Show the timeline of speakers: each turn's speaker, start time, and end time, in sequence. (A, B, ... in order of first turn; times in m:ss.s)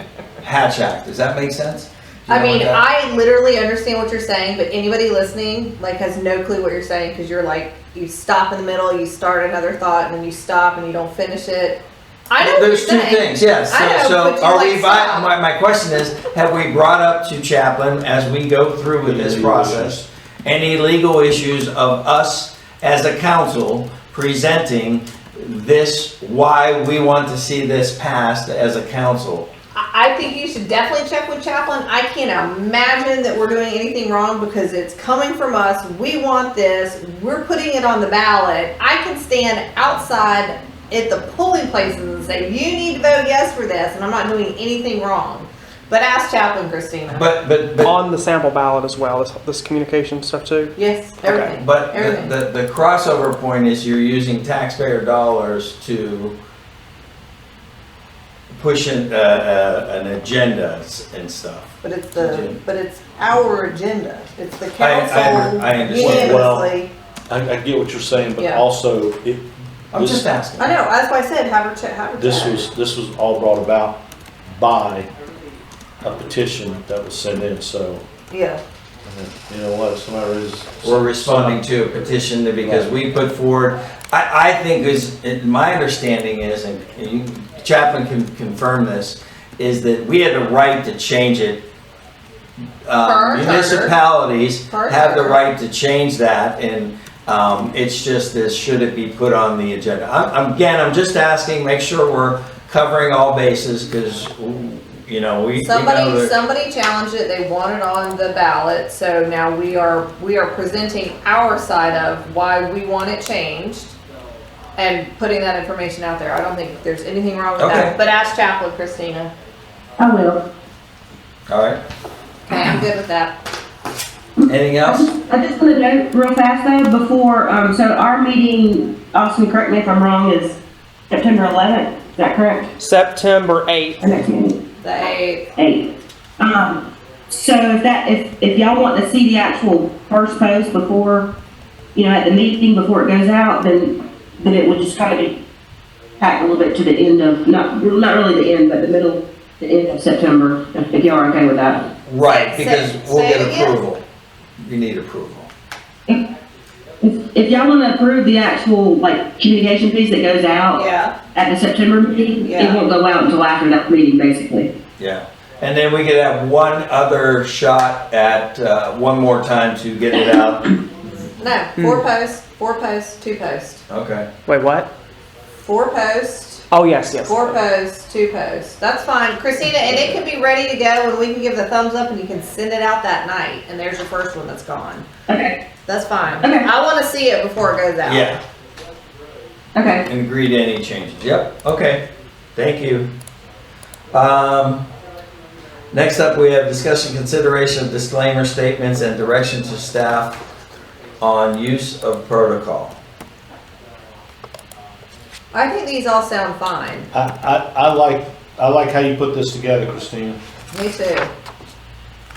0:00.4-0:02.8 A
0:02.3-0:15.3 B
0:12.4-0:29.5 A
0:19.0-0:20.0 C
0:29.7-0:47.3 B
0:47.1-0:47.9 A
0:47.8-0:51.6 D
0:50.8-0:52.3 B
0:51.6-0:56.4 A
0:58.5-1:02.6 A
1:01.8-1:06.9 B
1:04.8-1:06.6 A
1:05.9-1:06.7 C
1:07.3-1:10.3 C
1:08.4-1:08.6 B
1:09.9-1:10.7 A
1:10.6-1:12.7 B
1:12.2-1:15.1 C
1:16.0-1:18.0 C
1:18.3-1:18.6 B
1:19.0-1:21.6 C
1:20.8-1:31.6 A
1:22.6-1:22.9 C
1:32.8-1:46.3 A
1:33.0-1:33.9 B
1:34.7-1:35.4 B
1:45.6-1:54.0 B
1:54.8-1:59.3 B
1:57.6-1:57.9 A
2:00.0-2:00.4 E
2:01.5-2:01.8 A
2:02.5-2:03.4 B
2:04.4-2:10.6 E
2:04.5-2:05.1 A
2:11.1-2:12.7 E
2:12.8-2:14.0 D
2:14.0-2:14.6 E
2:14.8-2:15.4 B
2:15.6-2:21.3 E
2:21.9-2:25.4 E
2:26.2-2:31.9 E
2:32.0-2:34.0 A
2:32.2-2:33.8 B
2:34.6-2:35.5 A
2:37.0-2:44.7 E
2:40.7-2:41.1 B
2:42.4-2:42.8 B
2:45.0-2:50.7 A
2:51.4-2:53.8 B
2:51.8-2:52.0 D
2:53.9-2:54.3 A
2:54.4-2:54.9 D
2:55.6-2:56.6 B
2:56.7-2:57.6 D
2:57.2-3:05.0 B
3:05.3-3:05.6 E
3:05.8-3:08.4 B
3:06.4-3:06.7 E
3:08.0-3:08.4 A
3:09.7-3:10.0 E
3:10.0-3:13.1 A
3:14.1-3:14.9 A
3:15.9-3:20.4 A
3:21.2-3:23.0 A
3:25.5-3:27.1 B
3:27.1-3:30.4 C
3:30.7-3:31.3 B